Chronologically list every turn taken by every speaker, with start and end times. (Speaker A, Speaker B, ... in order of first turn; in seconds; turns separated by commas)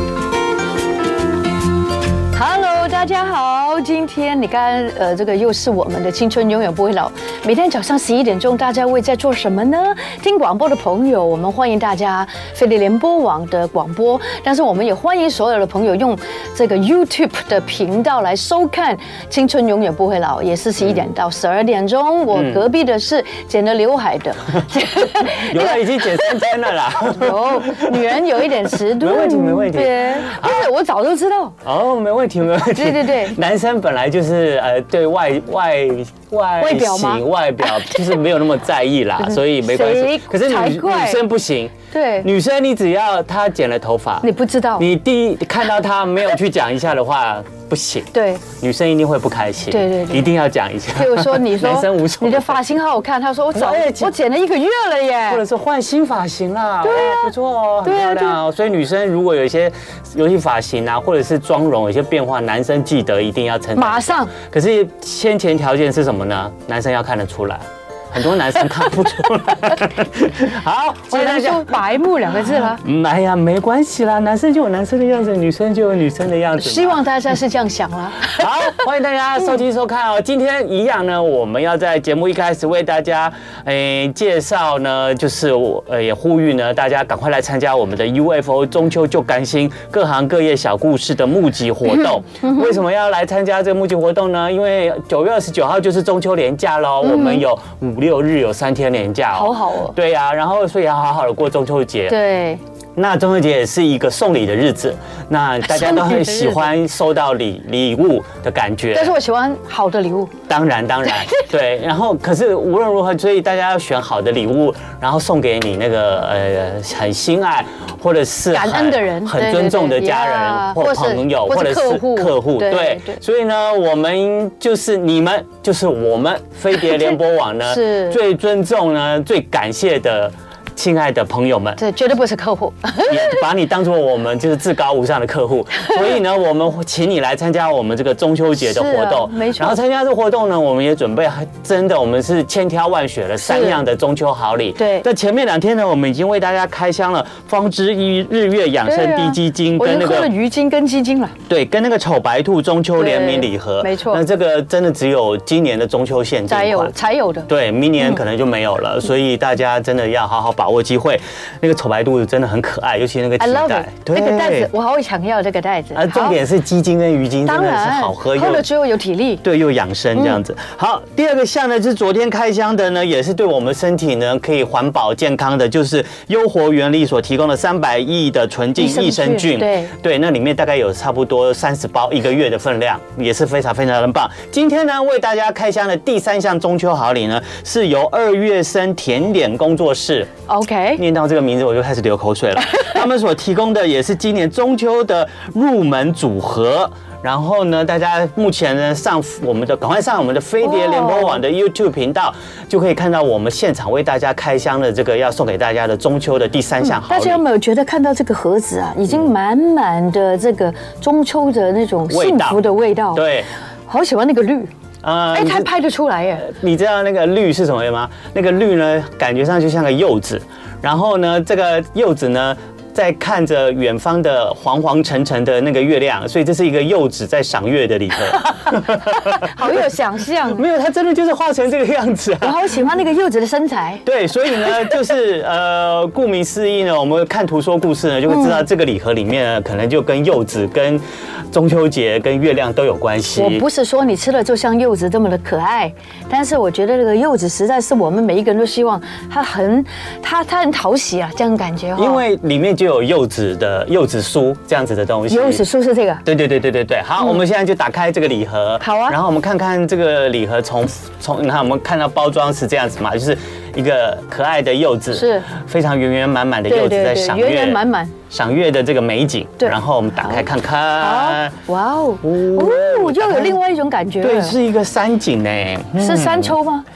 Speaker A: 2.3-31.6, Speaker B: 22.3-22.6, Speaker B: 25.1-30.7, Speaker B: 31.6-44.3, Speaker A: 32.6-33.4, Speaker A: 36.6-38.2, Speaker A: 39.2-41.2, Speaker A: 41.9-42.3, Speaker A: 44.2-44.9, Speaker B: 44.8-52.6, Speaker A: 48.1-48.4, Speaker A: 49.7-50.3, Speaker A: 50.9-55.4, Speaker B: 53.5-54.1, Speaker B: 55.3-71.8, Speaker A: 56.8-57.3, Speaker A: 57.8-58.4, Speaker A: 63.8-64.3, Speaker A: 71.1-72.8, Speaker B: 72.5-77.0, Speaker A: 76.6-78.8, Speaker B: 78.2-102.2, Speaker A: 91.9-92.8, Speaker A: 97.0-97.4, Speaker A: 99.3-100.0, Speaker A: 102.1-102.6, Speaker B: 103.0-109.2, Speaker A: 105.6-106.7, Speaker A: 108.9-110.3, Speaker B: 110.5-131.8, Speaker A: 111.1-111.4, Speaker A: 118.5-123.2, Speaker A: 126.7-128.2, Speaker A: 131.8-133.4, Speaker B: 133.0-150.3, Speaker A: 138.6-139.8, Speaker A: 143.4-143.8, Speaker A: 144.8-145.1, Speaker A: 148.8-151.3, Speaker B: 151.5-156.9, Speaker A: 152.9-154.2, Speaker A: 156.5-158.2, Speaker B: 157.5-164.7, Speaker A: 163.4-166.4, Speaker B: 165.9-168.7, Speaker A: 167.4-169.4, Speaker B: 169.4-190.3, Speaker A: 178.8-179.9, Speaker A: 190.5-191.0, Speaker B: 191.0-207.4, Speaker A: 200.6-201.4, Speaker A: 206.8-213.2, Speaker B: 212.1-212.6, Speaker B: 213.1-213.5, Speaker A: 213.9-214.7, Speaker B: 215.0-215.7, Speaker A: 215.3-216.5, Speaker B: 216.4-229.8, Speaker A: 228.8-230.6, Speaker B: 230.5-232.7, Speaker A: 232.4-234.0, Speaker B: 234.0-243.6, Speaker A: 238.3-238.6, Speaker A: 243.3-252.2, Speaker B: 251.9-255.6, Speaker A: 255.3-256.2, Speaker B: 256.2-271.6, Speaker A: 258.8-259.2, Speaker A: 265.1-265.5, Speaker A: 266.7-268.1, Speaker A: 269.6-270.5, Speaker A: 271.0-274.5, Speaker B: 272.2-273.6, Speaker B: 274.2-276.6, Speaker A: 276.0-276.9